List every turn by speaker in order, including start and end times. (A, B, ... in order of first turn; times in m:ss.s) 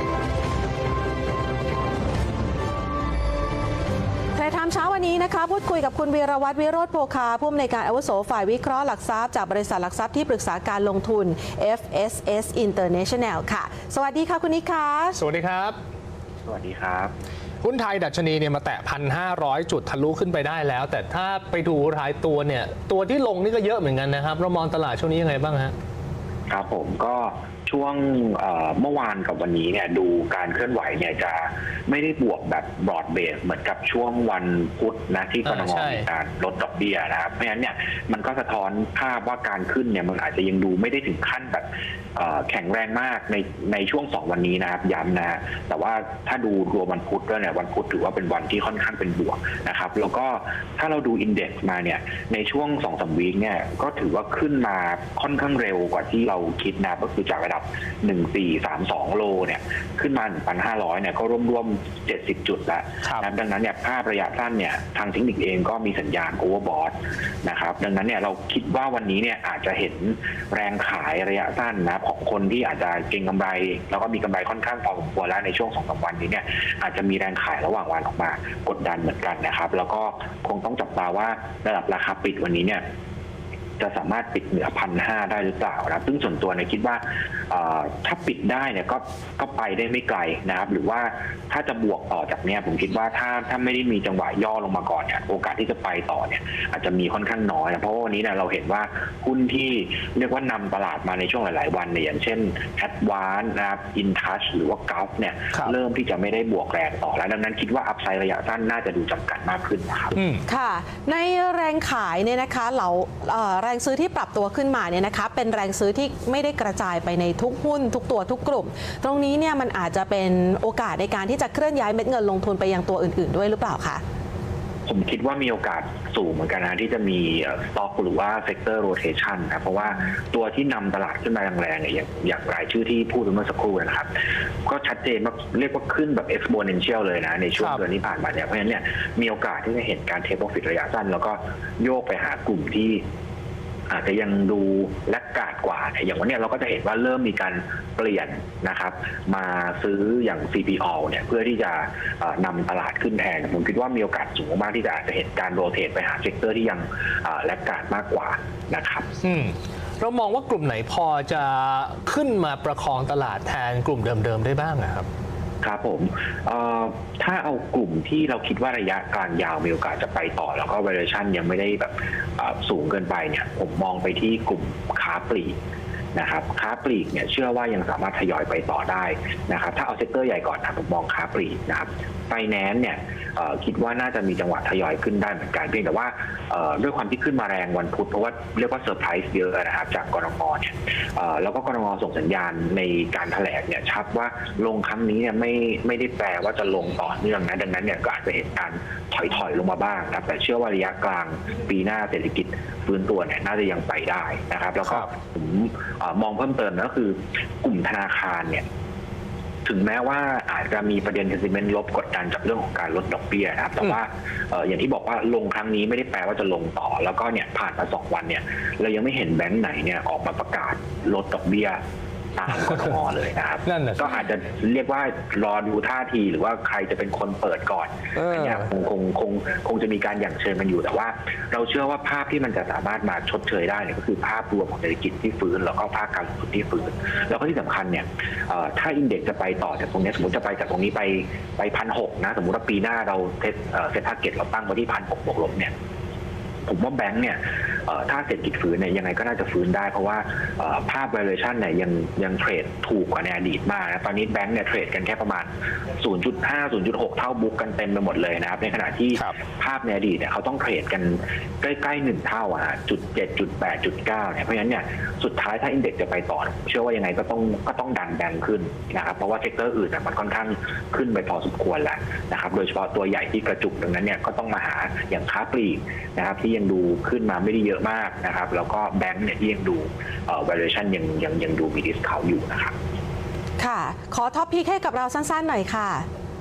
0:04.4-0:15.2 A
0:15.2-0:15.8 B
0:16.5-0:17.1 C
0:17.6-0:25.7 B
0:26.5-1:22.8 C
0:35.4-0:36.1 B
1:23.8-1:50.2 C
1:50.1-1:50.4 B
1:50.5-2:04.0 A
2:04.9-2:14.1 C
2:14.6-2:23.0 C
2:17.6-2:17.8 B
2:23.9-2:39.1 C
2:39.2-2:45.1 B
2:45.6-2:55.6 C
2:56.2-3:28.7 C
3:29.6-3:41.8 C
3:42.4-4:05.7 C
3:42.6-3:43.0 B
3:43.6-3:44.2 B
3:48.2-3:48.7 B
4:06.7-4:42.7 C
4:43.6-4:46.1 A